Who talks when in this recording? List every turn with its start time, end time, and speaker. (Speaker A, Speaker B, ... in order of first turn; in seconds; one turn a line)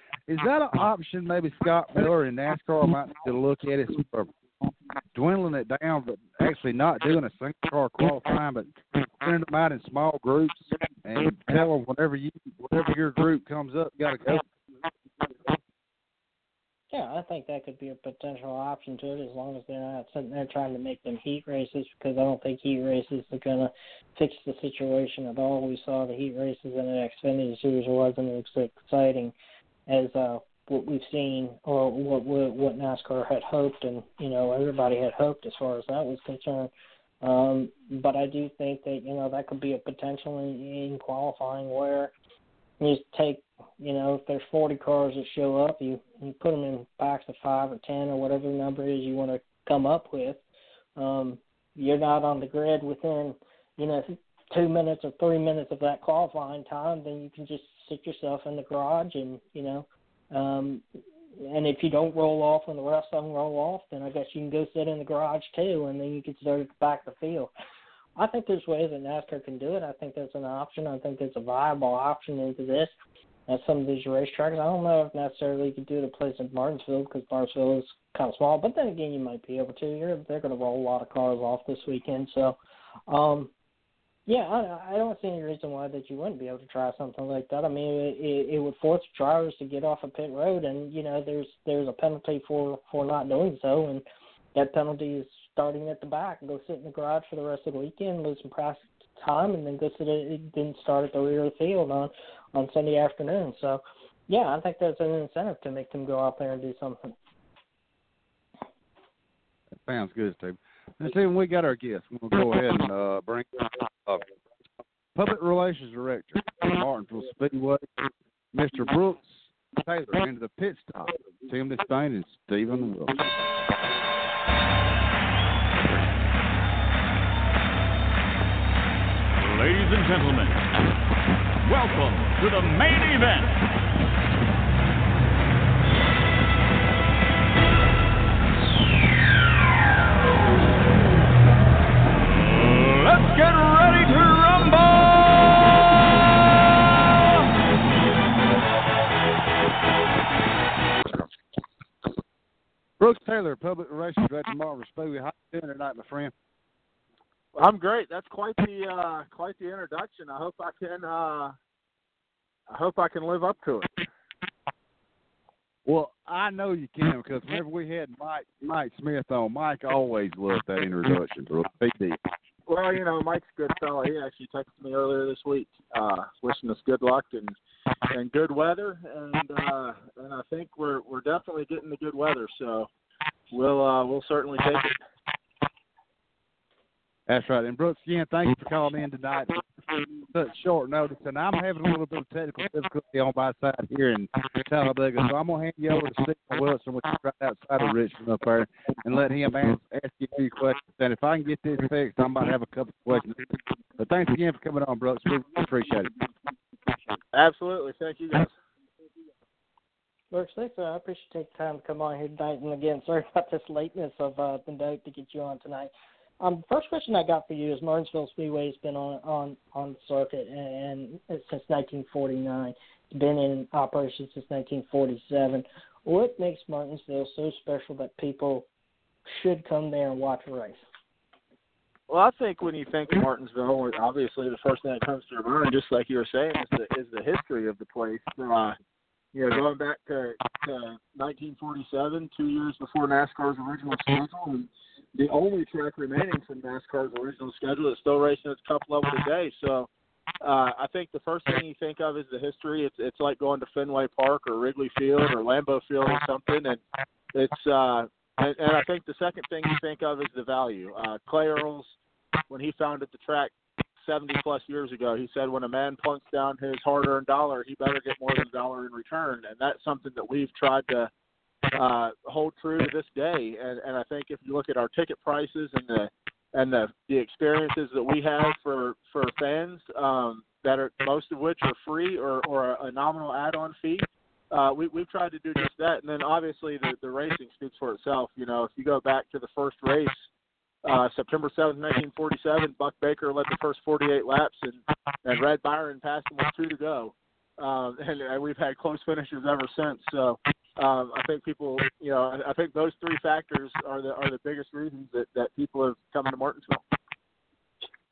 Speaker A: 0.3-4.3
Speaker A: 5.1-14.4
Speaker B: 16.9-29.3
Speaker B: 29.9-36.7
Speaker B: 37.2-42.1
Speaker B: 42.8-50.4
Speaker B: 51.0-60.8
Speaker B: 61.4-67.5
Speaker B: 68.2-72.9
Speaker B: 73.5-82.6
Speaker B: 83.1-83.5
Speaker B: 84.3-107.1
Speaker A: 109.8-114.2
Speaker A: 115.1-118.0
Speaker A: 118.5-123.2
Speaker C: 129.4-130.6
Speaker C: 131.6-133.6
Speaker C: 142.6-145.6
Speaker A: 153.0-156.3
Speaker D: 157.5-161.5
Speaker D: 162.7-163.9
Speaker A: 165.8-172.2
Speaker D: 172.7-177.6
Speaker D: 178.1-182.9
Speaker D: 183.5-185.0
Speaker A: 187.3-189.7
Speaker A: 190.3-206.1
Speaker D: 207.3-208.5
Speaker B: 210.3-228.7
Speaker B: 229.3-230.8
Speaker D: 232.1-238.8
Speaker D: 239.3-249.9
Speaker D: 250.4-256.8
Speaker D: 257.3-261.9
Speaker D: 262.5-271.1
Speaker D: 271.7-290.3
Speaker D: 290.8-306.8